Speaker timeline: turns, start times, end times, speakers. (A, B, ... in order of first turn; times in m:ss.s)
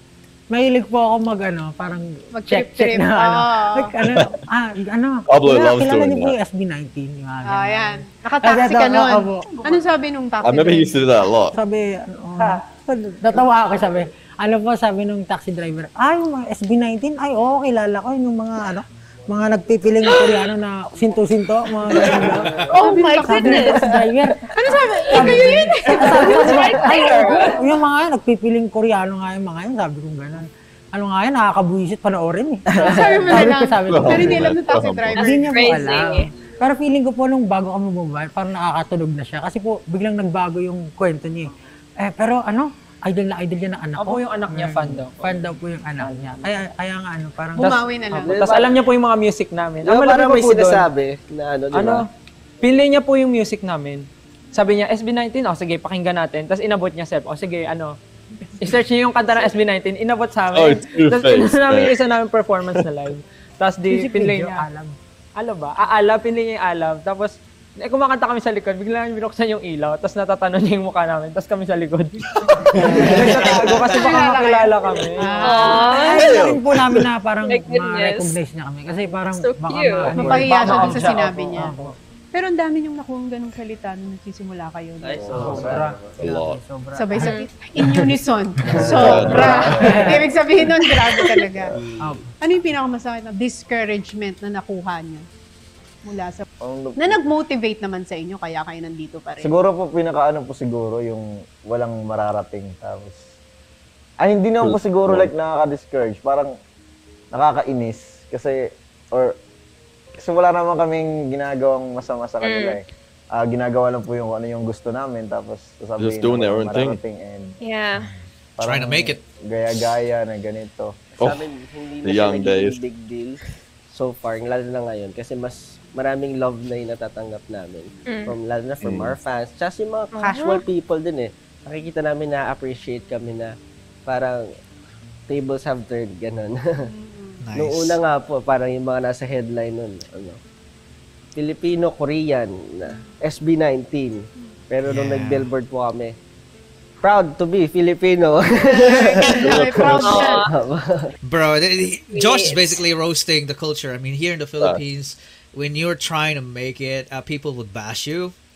0:00.5-0:09.8 A
0:02.3-0:04.0 B
0:05.3-0:06.3 C
0:07.4-0:11.1 B
0:10.4-0:11.6 C
0:11.5-0:47.8 A
0:22.7-0:27.5 B
0:22.7-0:23.9 D
0:25.1-0:27.5 D
0:32.7-0:33.4 E
0:32.8-0:35.5 B
0:33.9-0:35.4 C
0:35.4-0:36.3 D
0:44.0-0:45.4 F
0:47.6-0:48.7 B
0:47.6-0:50.9 F
0:48.2-0:48.8 E
0:49.8-0:52.0 E
0:51.7-0:52.1 F
0:52.6-0:58.0 F
0:58.6-1:04.6 F
1:00.5-1:02.0 C
1:03.9-1:05.0 A
1:05.4-1:15.6 F
1:13.0-1:14.4 A
1:13.0-1:13.6 C
1:13.3-1:13.9 G
1:13.6-1:16.2 B
1:15.4-1:16.5 D
1:15.7-1:21.9 A
1:16.1-1:17.1 C
1:17.4-1:18.4 D
1:19.4-1:20.1 D
1:20.1-1:25.9 B
1:20.1-1:21.4 F
1:25.0-1:26.0 E
1:25.2-1:26.0 G
1:25.3-1:27.3 A
1:26.2-1:26.6 C
1:26.9-1:31.8 B
1:27.2-1:27.5 D
1:28.6-1:29.9 C
1:28.7-1:29.9 G
1:29.0-1:30.3 A
1:29.0-1:30.1 E
1:31.0-1:31.2 D
1:32.0-1:32.2 A
1:32.4-1:35.2 B
1:36.0-1:36.4 B
1:36.6-1:37.3 G
1:37.0-1:39.5 B
1:39.4-1:43.2 G
1:44.2-1:46.5 G
1:44.6-1:45.3 C
1:47.3-1:48.6 G
1:50.2-1:57.6 G
1:52.4-1:52.8 D
1:56.0-1:57.0 C
1:57.6-1:58.1 D
1:57.9-1:59.2 H
1:58.6-2:01.1 G
2:01.1-2:03.4 E
2:01.2-2:01.4 C
2:02.0-2:02.8 C
2:03.9-2:13.5 E
2:08.1-2:08.4 D
2:08.8-2:09.1 C
2:10.1-2:10.6 D
2:14.1-2:14.4 E
2:15.3-2:16.9 E
2:16.9-2:17.4 B
2:17.4-2:18.0 H
2:17.5-2:20.4 E
2:21.4-2:26.1 E
2:24.8-2:25.5 H
2:27.0-2:29.4 E
2:28.6-2:30.5 B
2:29.2-2:30.0 H
2:29.3-2:30.2 C
2:30.0-2:30.5 D
2:30.4-2:31.1 E
2:31.2-2:38.3 H
2:32.1-2:32.8 D